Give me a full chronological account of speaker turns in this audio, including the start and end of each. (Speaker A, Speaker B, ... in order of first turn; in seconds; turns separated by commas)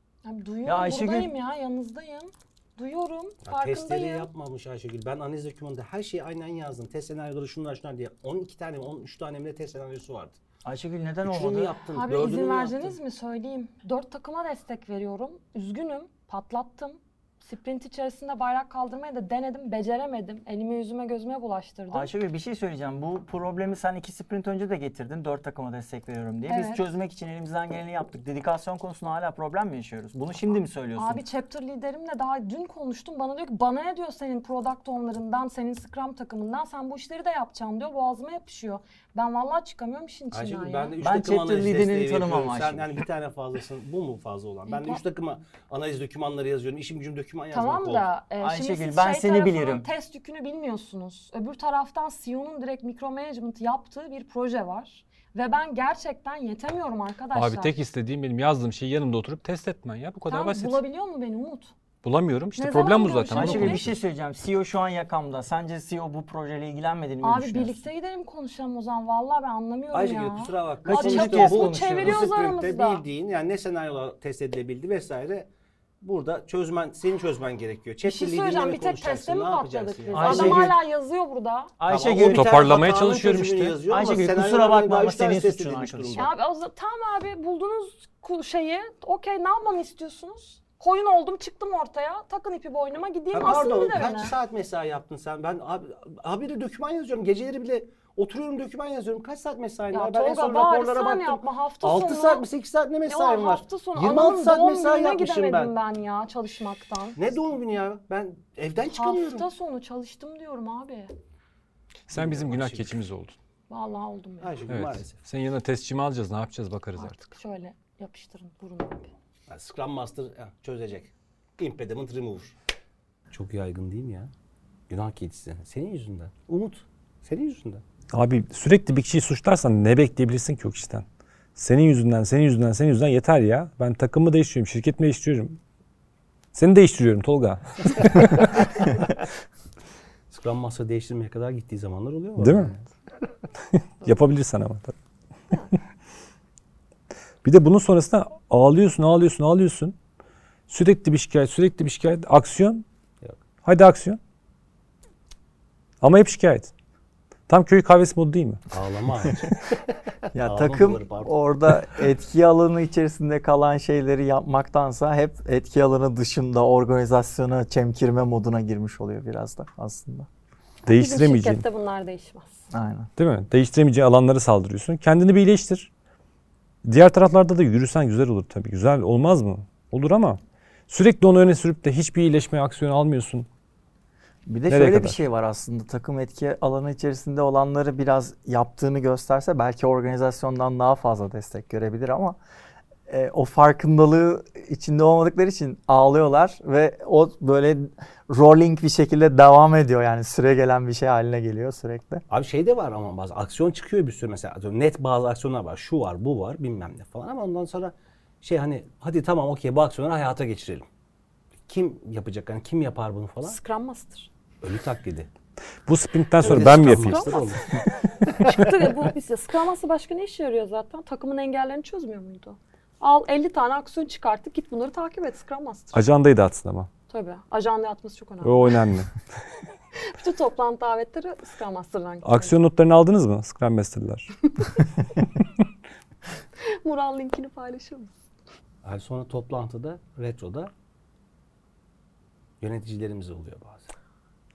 Speaker A: 0.2-4.3, Speaker B: 0.7-1.3, Speaker C: 3.4-10.4, Speaker B: 10.7-11.8, Speaker C: 11.2-13.0, Speaker A: 11.9-22.1, Speaker B: 21.9-31.2, Speaker A: 26.5-26.9, Speaker A: 31.0-41.0, Speaker C: 40.3-48.1, Speaker B: 41.0-43.0, Speaker A: 44.7-45.0, Speaker A: 47.5-57.7, Speaker B: 48.4-49.9, Speaker D: 57.3-60.8, Speaker A: 60.3-61.7, Speaker D: 62.0-64.0, Speaker A: 62.6-63.9, Speaker B: 63.3-67.8, Speaker A: 67.2-73.0, Speaker C: 69.9-75.5, Speaker B: 70.8-72.3, Speaker C: 76.0-80.7, Speaker A: 78.0-81.7, Speaker B: 80.1-80.8, Speaker B: 81.8-82.8, Speaker C: 81.9-86.3, Speaker D: 82.3-83.8, Speaker B: 83.9-86.3, Speaker A: 86.1-94.3, Speaker C: 93.3-105.7, Speaker A: 99.9-102.5, Speaker A: 103.1-107.2, Speaker C: 107.2-109.5, Speaker A: 108.9-111.1, Speaker D: 112.1-113.4, Speaker C: 112.1-113.0, Speaker A: 113.7-114.6, Speaker C: 114.4-115.2, Speaker D: 114.7-117.2, Speaker A: 117.0-119.1, Speaker C: 119.5-122.5, Speaker C: 123.3-124.3, Speaker C: 124.9-127.8, Speaker D: 128.1-131.1, Speaker D: 131.6-135.6, Speaker D: 136.5-138.8, Speaker C: 140.3-142.8, Speaker D: 142.4-142.8, Speaker D: 143.7-144.9, Speaker D: 147.4-149.9, Speaker D: 150.7-152.9, Speaker D: 153.7-154.2, Speaker D: 156.0-156.7, Speaker D: 157.5-158.7, Speaker C: 158.7-159.8, Speaker E: 160.3-170.3, Speaker C: 160.4-161.3, Speaker D: 170.9-171.7, Speaker A: 170.9-172.7, Speaker E: 172.7-173.1, Speaker D: 173.2-175.9, Speaker D: 176.8-183.5, Speaker E: 184.5-192.4, Speaker D: 184.7-185.2, Speaker E: 193.1-202.2, Speaker C: 202.3-210.9, Speaker C: 211.7-213.6, Speaker A: 213.4-214.3, Speaker C: 214.6-215.3, Speaker D: 215.9-217.4, Speaker C: 216.4-217.7, Speaker A: 216.4-226.1, Speaker C: 218.3-218.7, Speaker D: 225.9-226.9, Speaker A: 227.1-228.9, Speaker D: 228.4-229.1, Speaker A: 230.0-232.6, Speaker D: 232.2-234.3, Speaker A: 234.6-234.8, Speaker A: 236.6-238.1, Speaker C: 238.8-240.7, Speaker C: 242.6-243.9